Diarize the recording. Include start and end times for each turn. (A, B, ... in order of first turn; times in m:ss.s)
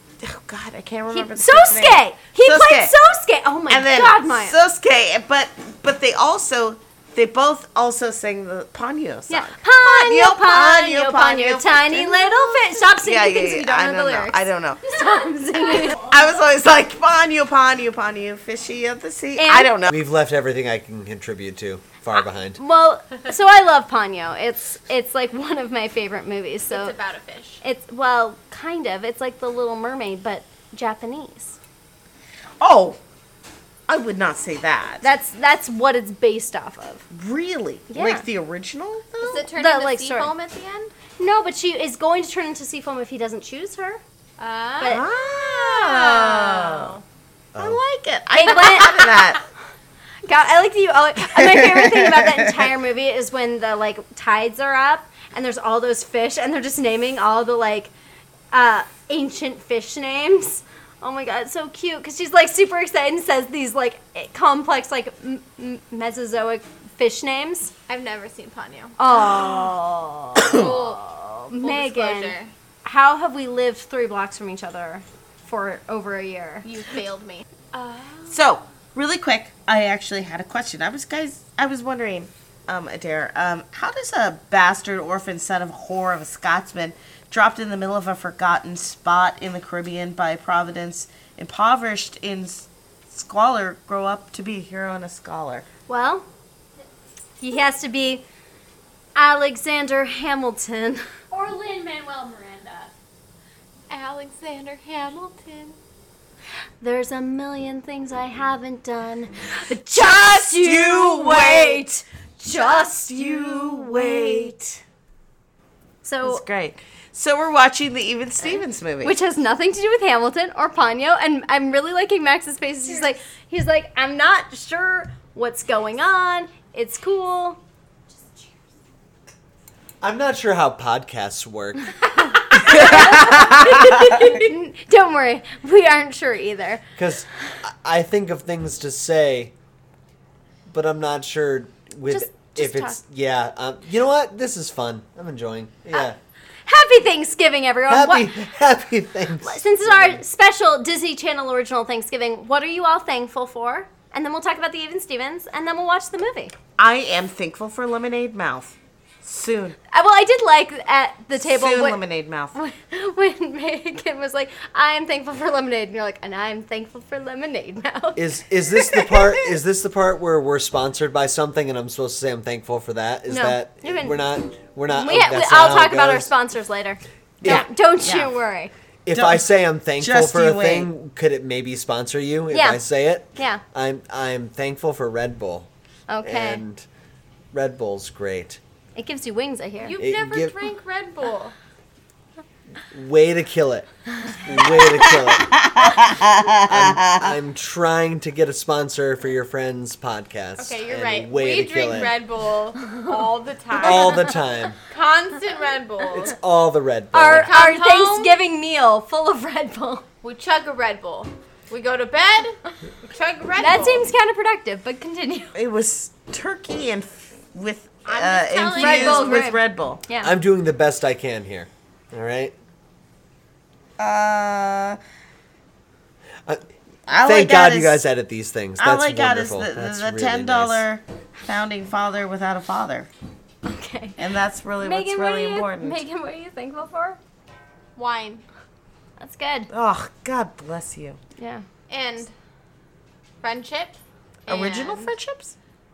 0:00.2-0:03.0 A
0:01.1-0:04.6 B
0:03.7-0:20.0 A
0:09.3-0:16.0 B
0:19.4-0:19.7 B
0:19.9-0:22.6 C
0:22.6-0:27.0 B
0:26.7-0:27.6 D
0:27.6-0:31.6 B
0:32.6-0:33.0 A
0:33.9-0:35.1 A
0:35.0-0:37.1 B
0:37.1-0:39.5 A
0:37.9-0:38.2 B
0:39.2-0:40.9 D
0:39.6-0:40.3 B
0:41.2-0:44.0 B
0:44.4-0:47.0 D
0:44.8-0:45.1 B
0:44.8-0:47.0 A
0:47.6-0:47.8 C
0:47.6-0:49.4 A
0:48.3-0:49.0 B
0:50.3-0:57.9 B
0:51.4-0:52.5 A
0:58.5-1:07.7 B
1:07.9-1:09.0 D
1:09.0-1:16.7 B
1:10.4-1:12.5 D
1:10.4-1:10.7 A
1:16.6-1:18.4 D
1:18.3-1:35.7 A
1:35.9-1:36.3 B
1:37.4-1:38.2 B
1:39.2-1:42.9 B
1:43.9-1:45.8 D
1:46.8-1:54.6 B
1:50.0-1:51.9 A
1:52.5-1:54.8 A
1:56.0-1:56.4 B
1:56.2-1:59.2 A
1:59.0-2:07.6 B
2:10.0-2:12.0 C
2:12.2-2:16.8 B
2:12.5-2:13.0 C
2:17.0-2:19.5 C
2:20.7-2:26.2 C
2:22.1-2:23.0 B
2:26.7-2:28.3 B
2:27.9-2:30.2 C
2:29.4-2:36.6 B
2:36.8-2:39.8 A
2:39.9-2:42.0 B
2:41.4-2:42.6 A
2:42.5-2:49.1 B
2:48.2-2:56.3 C
2:53.3-2:54.2 B
2:54.9-2:58.7 B
2:57.4-2:57.7 C
2:57.4-2:58.3 A
2:59.1-3:05.7 C
2:59.1-2:59.5 A
3:00.0-3:00.9 A
3:02.5-3:02.8 B
3:03.4-3:03.6 B
3:06.1-3:06.6 B
3:06.2-3:06.9 C
3:07.5-3:08.6 C
3:09.0-3:10.0 B
3:09.8-3:11.6 D
3:10.0-3:10.6 C
3:12.9-3:16.1 C
3:14.8-3:17.3 A
3:16.6-3:22.2 C
3:20.6-3:24.4 D
3:23.8-3:24.8 C
3:23.8-3:24.3 B
3:24.9-3:26.4 D
3:26.1-3:27.5 C
3:27.1-3:30.0 B
3:27.4-3:28.4 D
3:30.2-3:34.1 D
3:33.6-3:35.6 B
3:35.6-3:40.0 A
3:38.1-3:39.5 D
3:38.7-3:40.3 B
3:40.2-3:42.6 C
3:44.0-3:45.0 A
3:47.1-3:48.0 A
3:47.2-3:50.9 C
3:48.8-3:53.1 A
3:53.6-3:54.2 B
3:54.2-3:56.0 A
3:54.8-3:57.2 B
3:58.0-3:58.4 D
3:59.2-3:59.7 B
3:59.7-4:01.2 A
4:01.4-4:01.7 B
4:01.9-4:02.3 D
4:03.4-4:05.1 D
4:04.5-4:05.6 A